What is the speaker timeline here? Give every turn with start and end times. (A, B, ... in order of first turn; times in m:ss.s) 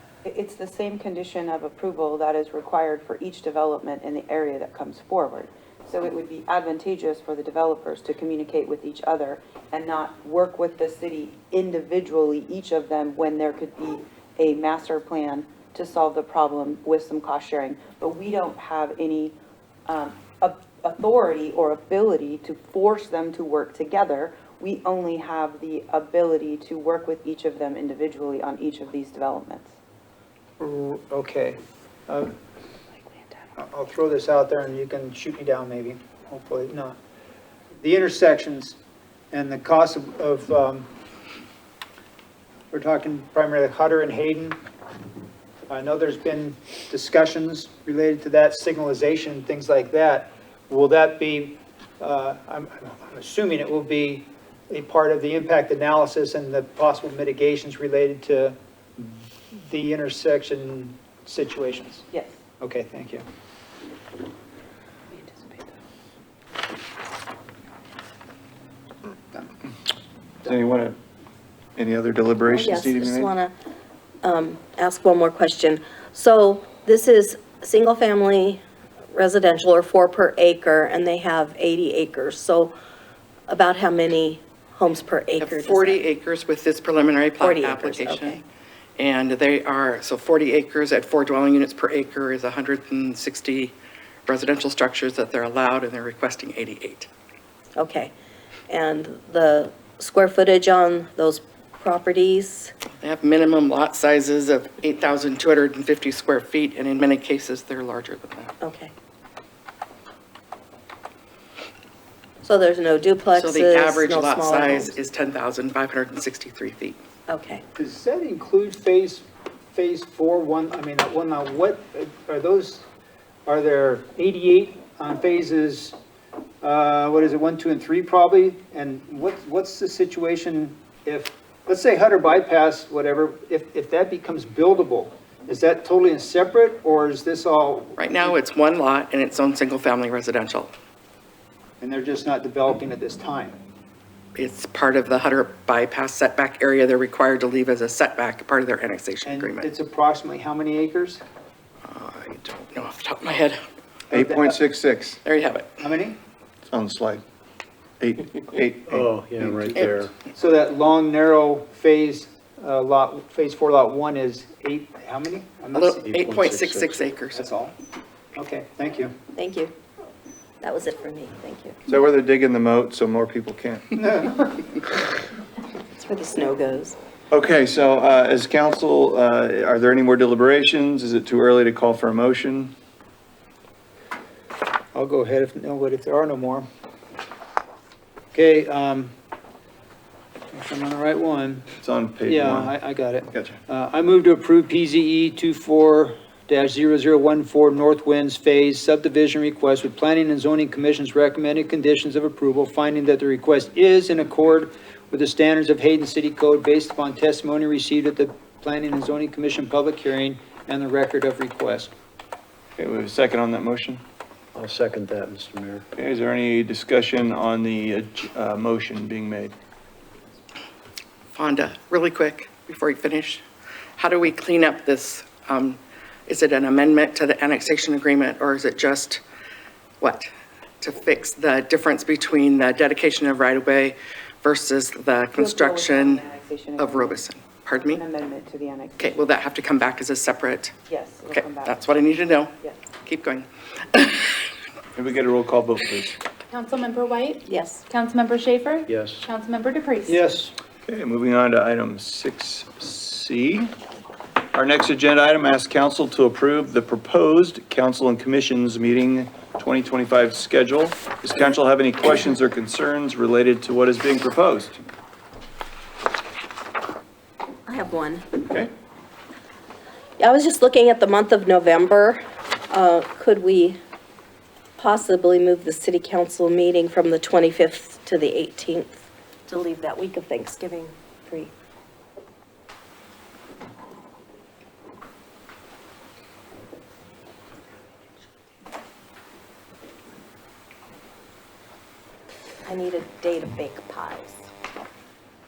0:00.2-0:19.4 A
0:19.9-0:29.7 A
0:30.6-0:32.4 B
0:33.6-0:37.0 B
0:37.8-0:38.8 B
0:39.3-0:40.9 B
0:42.7-0:44.6 B
0:45.7-1:02.1 B
1:02.1-1:02.4 A
1:02.6-1:03.2 B
1:10.4-1:11.0 C
1:11.8-1:13.3 C
1:12.5-1:13.5 D
1:14.2-1:18.6 D
1:19.1-1:22.7 D
1:23.5-1:26.0 D
1:25.4-1:28.4 E
1:27.4-1:28.4 D
1:29.0-1:33.7 E
1:34.2-1:37.1 E
1:37.8-1:38.1 D
1:38.7-1:42.7 D
1:43.0-1:48.5 E
1:48.6-1:48.9 D
1:52.4-1:54.9 D
1:53.3-1:57.0 E
1:57.3-1:57.6 D
1:57.7-2:02.8 B
2:03.4-2:06.0 B
2:06.6-2:18.3 B
2:18.0-2:20.7 E
2:21.8-2:23.6 B
2:24.3-2:29.7 E
2:29.2-2:31.2 B
2:31.8-2:33.6 E
2:34.1-2:34.6 B
2:34.1-2:35.2 C
2:35.2-2:35.7 E
2:35.8-2:36.2 B
2:36.7-2:37.2 C
2:38.0-2:39.8 C
2:38.9-2:40.1 F
2:40.3-2:46.2 B
2:45.7-2:47.4 E
2:46.0-2:47.0 F
2:47.3-2:47.8 B
2:48.4-2:49.1 B
2:49.3-2:49.7 D
2:50.6-2:51.8 D
2:51.9-2:53.9 C
2:54.0-2:54.7 B
2:56.0-2:57.0 D
2:57.3-3:02.7 C
3:04.9-3:06.7 B
3:08.3-3:09.1 B
3:10.5-3:11.7 B
3:11.8-3:12.7 C
3:12.2-3:31.9 B
3:32.8-3:34.0 C
3:34.5-3:35.8 F
3:36.0-3:39.5 C
3:41.3-3:43.4 E
3:44.0-3:49.2 E
3:50.0-3:50.3 E
3:50.8-3:56.2 E
3:55.3-3:57.2 A
3:56.8-3:58.0 E
3:57.7-3:59.2 A
3:59.0-4:00.7 E
4:00.9-4:01.8 A
4:01.3-4:02.5 E
4:03.0-4:04.3 E
4:04.9-4:06.2 C
4:06.5-4:10.2 G
4:07.5-4:07.8 D
4:08.9-4:09.2 F
4:10.1-4:10.5 B
4:10.8-4:13.7 C
4:14.5-4:24.8 C
4:27.7-4:28.2 D
4:28.4-4:28.7 C
4:30.2-4:33.8 D
4:34.8-4:41.5 D
4:52.6-4:54.5 D